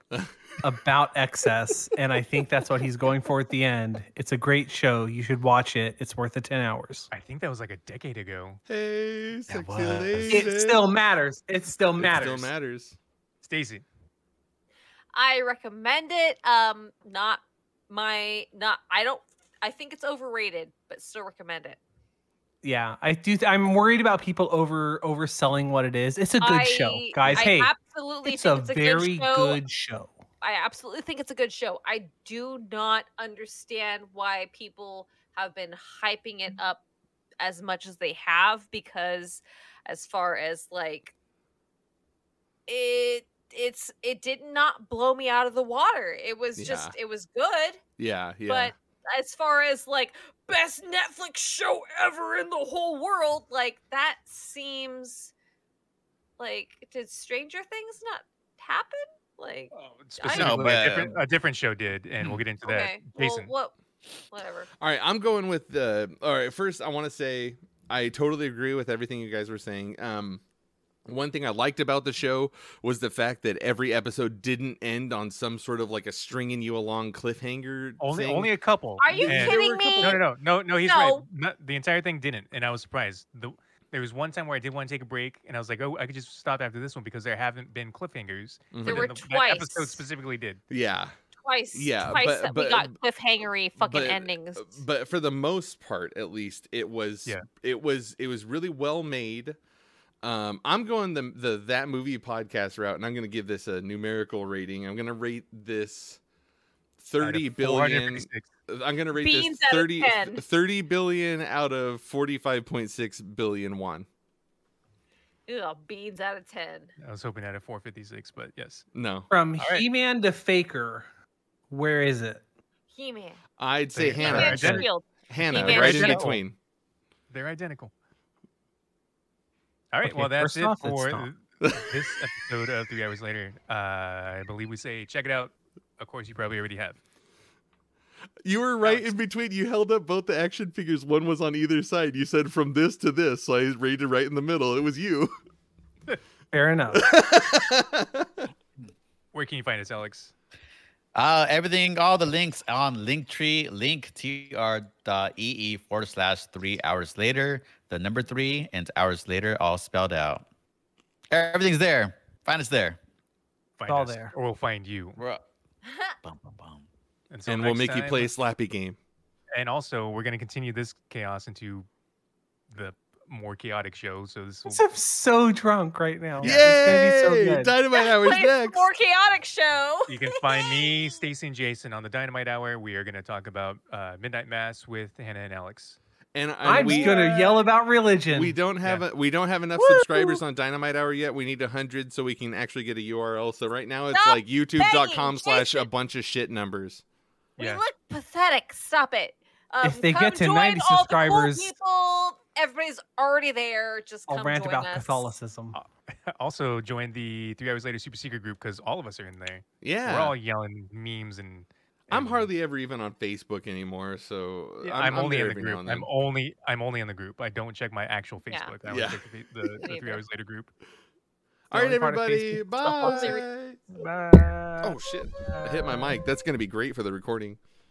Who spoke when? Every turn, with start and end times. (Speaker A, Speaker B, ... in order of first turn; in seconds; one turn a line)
Speaker A: 0.6-7.1
Speaker B: 7.1-8.6
Speaker C: 8.7-10.9
Speaker D: 9.5-10.5
Speaker A: 10.3-12.5
Speaker C: 12.0-13.0
Speaker B: 13.4-13.8
Speaker E: 15.2-21.8
Speaker A: 22.6-27.7
Speaker E: 26.4-29.6
Speaker A: 28.3-30.2
Speaker E: 30.4-36.8
Speaker E: 37.4-41.1
Speaker E: 42.7-47.8
Speaker C: 46.6-47.0
Speaker C: 48.0-48.7
Speaker E: 48.5-55.3
Speaker E: 56.4-60.8
Speaker B: 59.7-63.5
Speaker D: 60.3-61.2
Speaker E: 62.6-63.7
Speaker E: 64.3-64.7
Speaker C: 64.8-70.4
Speaker C: 71.1-78.5
Speaker B: 78.0-90.6
Speaker E: 79.0-80.2
Speaker C: 79.1-80.2
Speaker E: 80.8-81.2
Speaker C: 88.7-89.1
Speaker E: 88.8-90.0
Speaker C: 90.7-91.2
Speaker E: 91.4-94.8
Speaker C: 91.7-93.0
Speaker C: 93.8-99.6
Speaker C: 100.2-106.2
Speaker C: 107.0-114.1
Speaker B: 107.2-108.5
Speaker E: 109.1-110.4
Speaker E: 115.5-116.9
Speaker B: 117.0-118.8
Speaker C: 119.0-119.3
Speaker A: 119.3-121.1
Speaker B: 119.6-119.9
Speaker A: 121.7-122.4
Speaker E: 122.9-123.4
Speaker C: 123.6-126.6
Speaker B: 123.9-124.9
Speaker E: 124.2-126.3
Speaker B: 125.5-126.4
Speaker B: 127.3-127.9
Speaker B: 129.9-137.0
Speaker A: 130.0-131.3
Speaker C: 131.6-132.0
Speaker C: 138.4-145.3
Speaker B: 138.8-139.1
Speaker A: 146.5-147.1
Speaker C: 146.9-148.5
Speaker B: 149.3-150.3
Speaker D: 151.2-160.4
Speaker D: 161.3-163.0
Speaker B: 163.8-165.2
Speaker A: 163.9-164.3
Speaker D: 165.2-165.4
Speaker E: 165.8-166.2
Speaker D: 166.2-166.8
Speaker B: 167.3-168.3
Speaker C: 167.5-169.0
Speaker B: 169.5-171.9
Speaker B: 172.7-174.8
Speaker A: 174.7-177.8
Speaker C: 176.4-178.9
Speaker E: 177.9-181.2
Speaker B: 180.1-186.0
Speaker C: 186.3-187.5
Speaker A: 186.6-188.6
Speaker E: 186.7-187.4
Speaker C: 188.3-197.0
Speaker A: 189.8-190.4
Speaker E: 194.1-195.9
Speaker B: 197.6-197.8
Speaker E: 197.6-205.3
Speaker A: 199.8-201.8
Speaker A: 204.3-205.8
Speaker B: 205.7-212.5
Speaker C: 209.8-210.3
Speaker C: 212.1-216.1
Speaker B: 214.8-220.7
Speaker E: 218.5-218.8
Speaker C: 218.9-219.8
Speaker E: 219.8-220.2
Speaker C: 221.7-223.9
Speaker A: 221.7-223.4
Speaker E: 223.0-223.4
Speaker B: 223.9-226.1
Speaker C: 224.8-227.6